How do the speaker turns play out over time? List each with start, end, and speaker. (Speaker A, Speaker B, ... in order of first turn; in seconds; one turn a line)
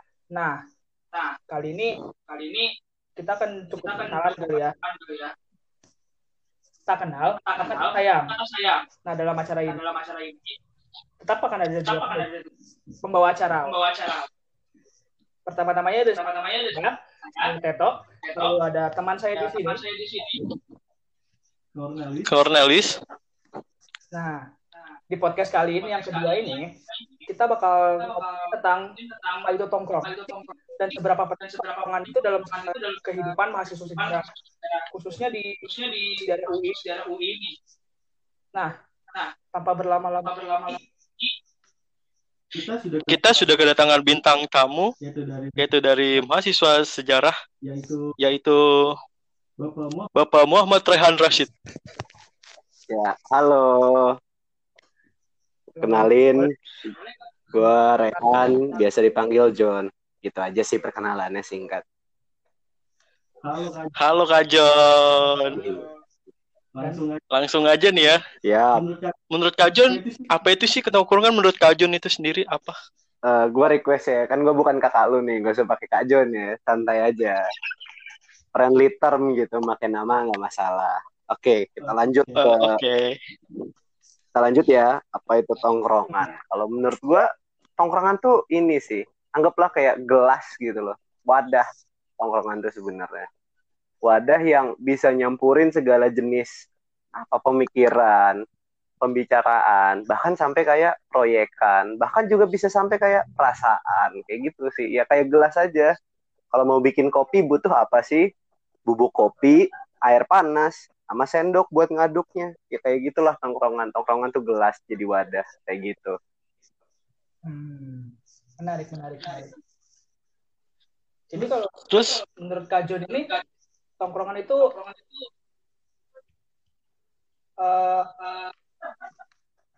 Speaker A: 0.3-0.6
Speaker A: 1.5-2.0
Speaker B: 2.2-2.7
Speaker A: 3.2-4.7
Speaker B: 3.8-5.3
Speaker A: 6.9-8.3
Speaker B: 7.5-8.8
Speaker A: 9.1-9.8
Speaker B: 9.7-10.6
Speaker A: 11.2-12.3
Speaker B: 11.9-12.5
Speaker A: 13.0-13.8
Speaker B: 13.6-14.3
Speaker A: 15.5-16.2
Speaker B: 16.1-17.5
Speaker A: 16.7-19.8
Speaker B: 18.2-18.6
Speaker B: 19.4-20.4
Speaker C: 21.8-22.3
Speaker D: 22.3-22.9
Speaker A: 24.1-24.4
Speaker A: 25.1-26.7
Speaker B: 25.8-27.3
Speaker A: 27.3-28.9
Speaker B: 28.0-29.5
Speaker A: 29.4-30.1
Speaker B: 30.0-33.4
Speaker A: 30.8-34.2
Speaker B: 34.0-34.9
Speaker A: 34.9-35.6
Speaker B: 35.6-37.6
Speaker A: 36.1-36.8
Speaker A: 39.5-40.8
Speaker B: 40.2-41.3
Speaker C: 42.5-43.3
Speaker D: 43.1-44.9
Speaker C: 45.0-45.7
Speaker D: 45.6-47.3
Speaker C: 47.6-48.0
Speaker D: 48.2-48.9
Speaker C: 49.6-50.1
Speaker D: 50.1-51.5
Speaker E: 52.9-54.1
Speaker A: 55.8-56.2
Speaker E: 55.8-56.5
Speaker E: 57.5-61.8
Speaker A: 58.1-58.9
Speaker C: 63.4-63.9
Speaker D: 64.0-65.6
Speaker E: 65.5-65.8
Speaker C: 66.8-67.2
Speaker D: 67.3-68.2
Speaker E: 68.4-68.8
Speaker C: 68.8-69.2
Speaker D: 69.3-72.8
Speaker C: 69.8-70.3
Speaker E: 73.3-77.4
Speaker E: 78.5-82.8
Speaker D: 82.4-83.2
Speaker E: 84.3-87.2
Speaker E: 87.8-91.6
Speaker E: 92.2-93.3
Speaker E: 94.0-96.5
Speaker E: 97.2-98.4
Speaker E: 99.0-105.9
Speaker E: 106.5-108.2
Speaker E: 108.9-116.1
Speaker A: 117.5-119.5
Speaker A: 121.3-123.3
Speaker D: 121.9-122.2
Speaker A: 124.0-124.6
Speaker B: 124.7-125.2
Speaker A: 127.6-128.1
Speaker B: 128.2-128.5